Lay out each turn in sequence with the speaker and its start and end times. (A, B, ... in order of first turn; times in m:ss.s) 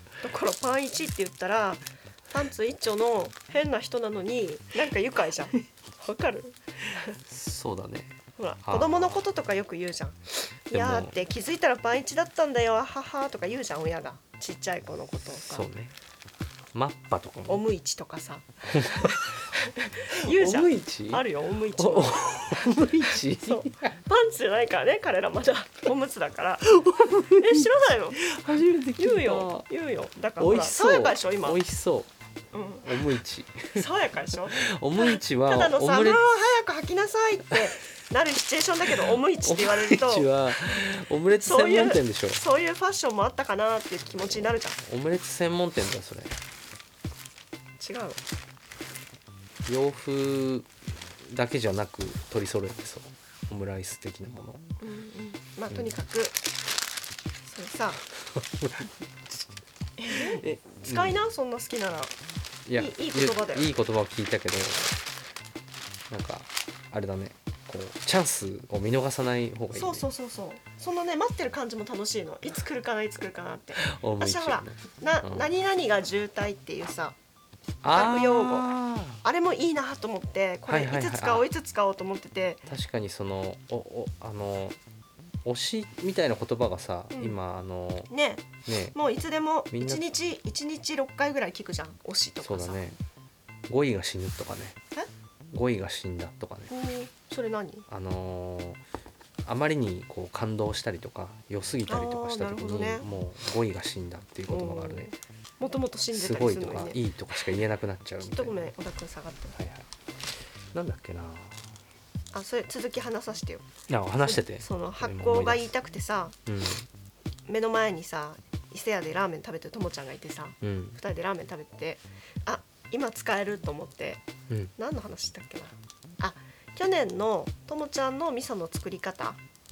0:00.2-0:07.2 A
0:07.3-0:09.2 B
0:08.4-0:15.7 A
0:10.7-0:11.1 B
0:15.3-0:16.0 B
0:16.7-0:17.6 B
0:17.5-0:22.8 A
0:18.7-0:19.2 B
0:20.3-0:24.0 B
0:23.4-0:28.2 A
0:26.7-0:29.7 B
0:29.0-0:31.6 A
0:30.4-0:32.1 B
0:32.5-0:33.0 A
0:32.8-0:33.9 B
0:33.7-0:40.3 A
0:34.5-0:36.2 B
0:39.0-0:42.4 B
0:41.4-0:44.8 A
0:44.3-0:46.4 B
0:47.8-0:48.2 A
0:49.7-0:54.6 B
0:54.8-0:56.4 A
0:57.4-0:58.0 A
0:58.2-0:59.4 B
1:00.0-1:02.1 A
1:00.1-1:01.2 B
1:02.7-1:05.0 B
1:02.8-1:03.7 A
1:06.1-1:10.1 B
1:09.7-1:17.2 A
1:13.8-1:15.5 B
1:17.8-1:19.2 B
1:17.9-1:22.6 A
1:20.7-1:21.5 B
1:22.7-1:24.8 B
1:25.4-1:28.1 B
1:27.1-1:27.4 A
1:28.1-1:32.8 A
1:28.6-1:29.0 B
1:29.7-1:30.0 B
1:32.4-1:33.0 B
1:33.7-1:34.8 B
1:35.5-1:36.7 B
1:36.7-1:37.9 A
1:37.9-1:38.8 B
1:39.4-1:45.1 B
1:41.9-1:43.1 A
1:44.5-1:47.4 A
1:46.1-1:48.7 B
1:48.2-1:49.6 A
1:49.6-1:49.9 B
1:50.7-1:51.7 B
1:52.3-1:53.7 A
1:53.9-1:55.7 B
1:54.2-1:56.4 A
1:56.5-1:56.9 B
1:57.5-2:04.2 A
2:00.6-2:01.0 B
2:04.8-2:09.4 A